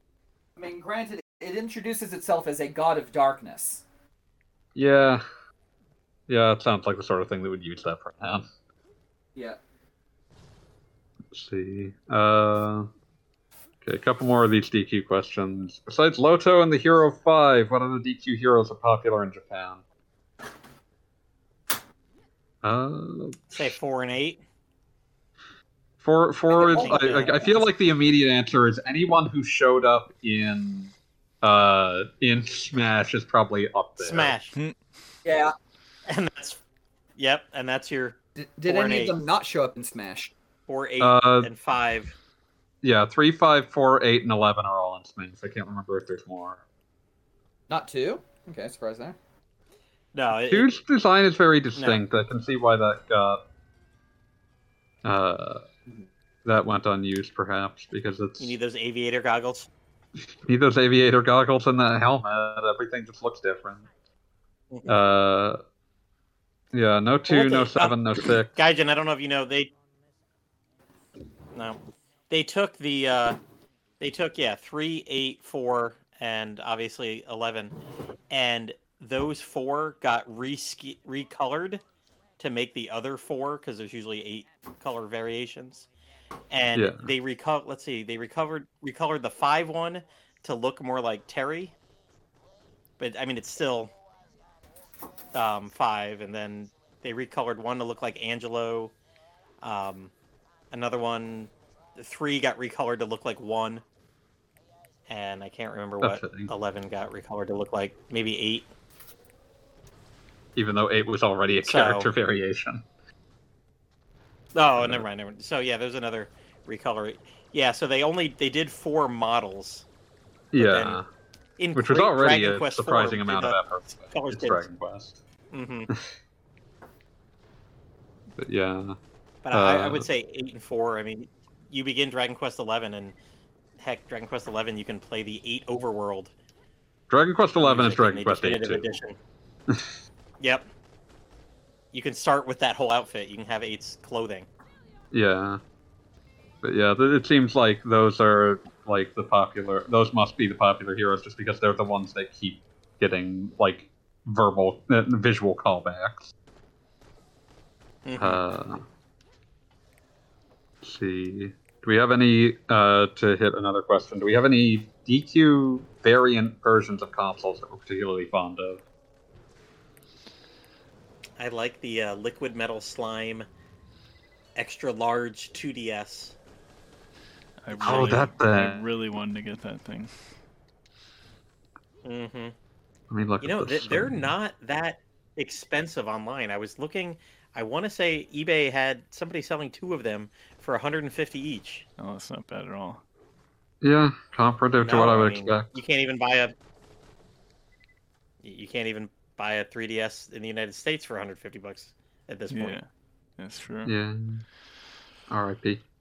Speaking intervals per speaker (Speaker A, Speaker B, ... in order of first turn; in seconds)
Speaker A: 0.6-3.8, 26.5-27.6, 35.2-35.5, 38.4-40.3, 47.7-49.1
Speaker B: 4.8-5.2, 6.3-8.4, 11.3-12.9, 13.8-19.8, 22.6-23.6, 26.0-34.3, 41.0-41.5, 42.8-46.6, 50.5-53.4, 55.0-55.7, 56.4-58.6, 60.4-63.9, 64.8-65.6, 66.7-68.5, 86.7-87.1, 106.0-106.5, 110.5-112.8, 114.7-115.0, 120.5-121.1, 121.7-125.2, 128.4-129.0, 129.5-130.1, 137.1-138.9, 145.1-145.6, 146.6-156.3, 158.2-158.8, 160.8-168.8, 177.8-178.8, 183.1-184.2, 193.8-195.7, 203.8-204.4, 205.3-205.8
Speaker C: 23.5-24.4, 26.6-27.3, 34.0-34.5, 36.1-36.6, 37.2-39.1, 40.7-42.1, 50.1-50.7, 51.8-52.0, 58.4-59.7, 67.3-69.7, 72.3-73.4, 74.0-77.7, 78.3-81.8, 82.4-85.9, 86.5-91.7, 93.0-93.9, 95.3-98.9, 99.6-100.1, 100.7-103.8, 105.1-108.7, 111.6-112.1, 114.5-119.8, 120.6-121.0, 121.6-124.6, 125.5-125.9, 129.4-133.1, 133.8-136.3, 137.6-139.2, 140.4-140.7, 141.9-144.5, 158.1-158.4, 171.4-173.4, 174.6-176.4, 177.7-178.3, 182.0-182.5, 183.4-191.8, 194.8-196.5, 198.4-202.8
Speaker D: 177.6-180.1, 192.0-193.0, 202.5-202.9, 203.4-203.9